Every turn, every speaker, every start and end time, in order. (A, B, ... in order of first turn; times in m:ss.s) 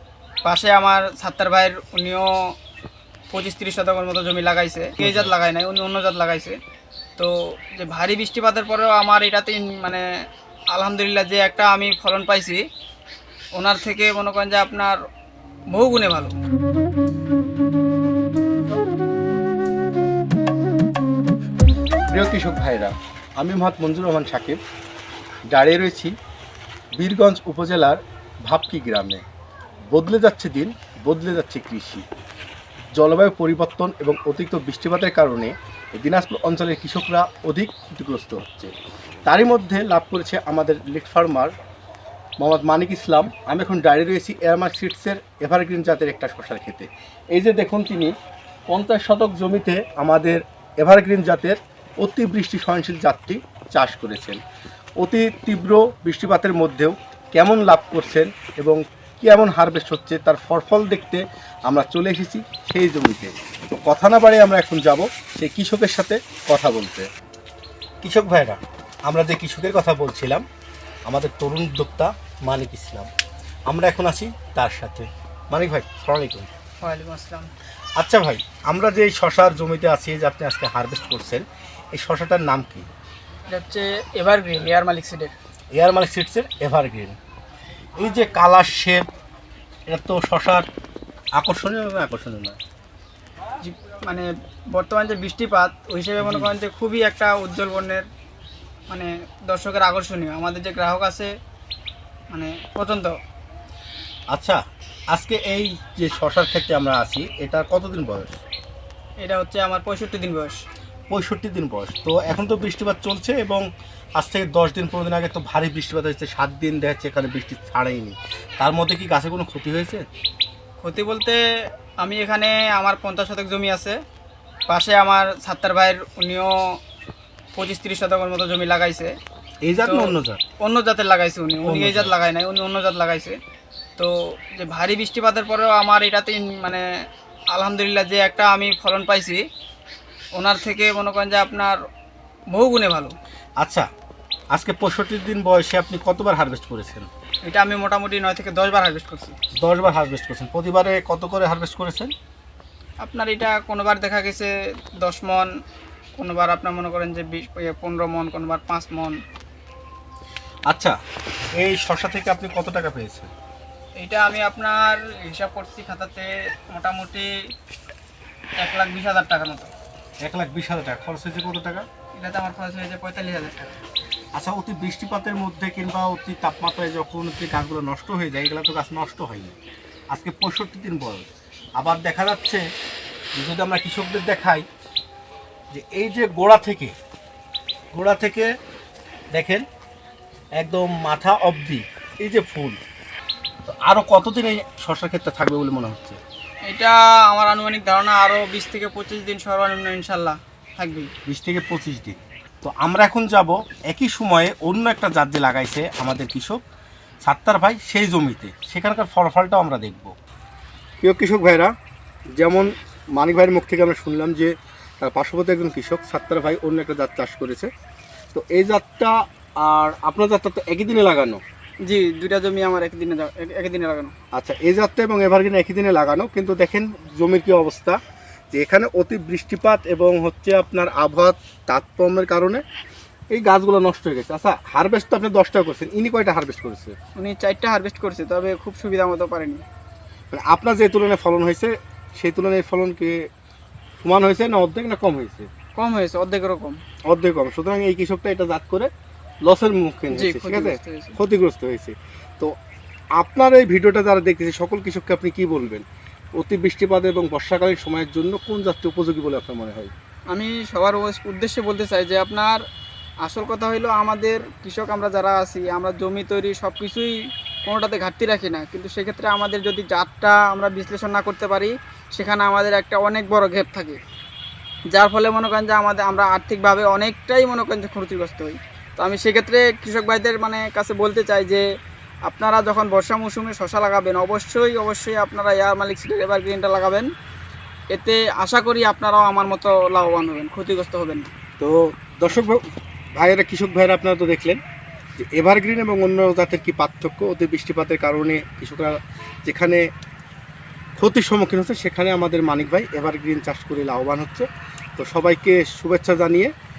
0:00.4-0:02.3 A
0:03.3-0:06.6 A
0:05.0-0:05.3 B
0:07.2-0:10.0 A
0:10.7-0:12.6 A
0:13.6-0:15.0 A
0:15.7-0:16.3 A
0:22.1-0:24.6 B
0:25.5-0:26.1 B
0:27.0-0:29.2 B
0:29.9-0:32.0 B
0:33.0-0:38.7 B
0:39.3-0:41.5 B
0:42.4-0:48.1 B
0:48.7-0:54.4 B
0:55.0-1:07.1 B
1:08.0-1:10.4 B
1:11.1-1:13.1 B
1:13.7-1:16.5 B
1:16.8-1:17.5 A
1:18.0-1:22.9 B
1:23.5-1:25.3 A
1:25.7-1:27.2 B
1:28.0-1:29.0 B
1:29.9-1:30.6 B
1:31.4-1:32.6 B
1:33.6-1:38.1 A
1:36.2-1:36.5 B
1:38.9-1:41.3 A
1:42.3-1:43.1 A
1:44.3-1:44.6 B
1:45.1-1:48.4 B
1:49.2-1:50.6 A
1:51.1-1:53.6 B
1:54.2-2:00.0 B
2:00.8-2:01.4 A
2:02.0-2:04.0 A
2:04.7-2:06.6 A
2:07.5-2:09.1 A
2:09.6-2:10.4 B
2:09.8-2:13.4 A
2:11.6-2:12.1 B
2:14.0-2:16.8 A
2:17.5-2:19.4 A
2:20.4-2:21.8 A
2:22.5-2:23.1 A
2:23.6-2:23.9 B
2:24.5-2:27.1 B
2:27.5-2:29.4 A
2:29.6-2:32.1 B
2:33.0-2:35.5 A
2:36.2-2:39.2 A
2:40.7-2:41.0 B
2:41.6-2:43.3 B
2:44.0-2:47.3 A
2:48.6-2:49.7 A
2:50.2-2:51.8 B
2:52.2-2:53.8 A
2:54.4-2:59.6 B
3:00.1-3:02.6 B
3:03.4-3:04.6 B
3:05.7-3:06.9 B
3:07.9-3:08.5 B
3:09.3-3:09.6 B
3:10.6-3:12.8 B
3:13.7-3:16.2 B
3:16.7-3:21.1 A
3:21.3-3:26.6 B
3:27.2-3:30.1 B
3:31.0-3:31.7 B
3:32.4-3:37.7 B
3:38.3-3:41.4 B
3:41.9-3:44.1 A
3:44.3-3:48.0 B
3:48.5-3:52.6 B
3:53.3-3:57.0 B
3:57.2-3:59.6 A
4:00.3-4:03.2 B
4:04.0-4:05.5 B
4:05.8-4:06.8 A
4:07.1-4:08.9 B
4:09.4-4:12.5 B
4:10.1-4:11.2 A
4:13.2-4:15.8 B
4:16.4-4:19.9 B
4:20.3-4:22.6 A
4:23.2-4:27.1 A
4:27.6-4:34.0 A
4:34.9-4:41.6 A
4:42.3-4:47.1 A
4:47.9-4:51.3 A
4:51.6-4:52.6 B
4:53.2-4:54.6 B
4:55.2-4:59.8 B
5:01.0-5:06.5 B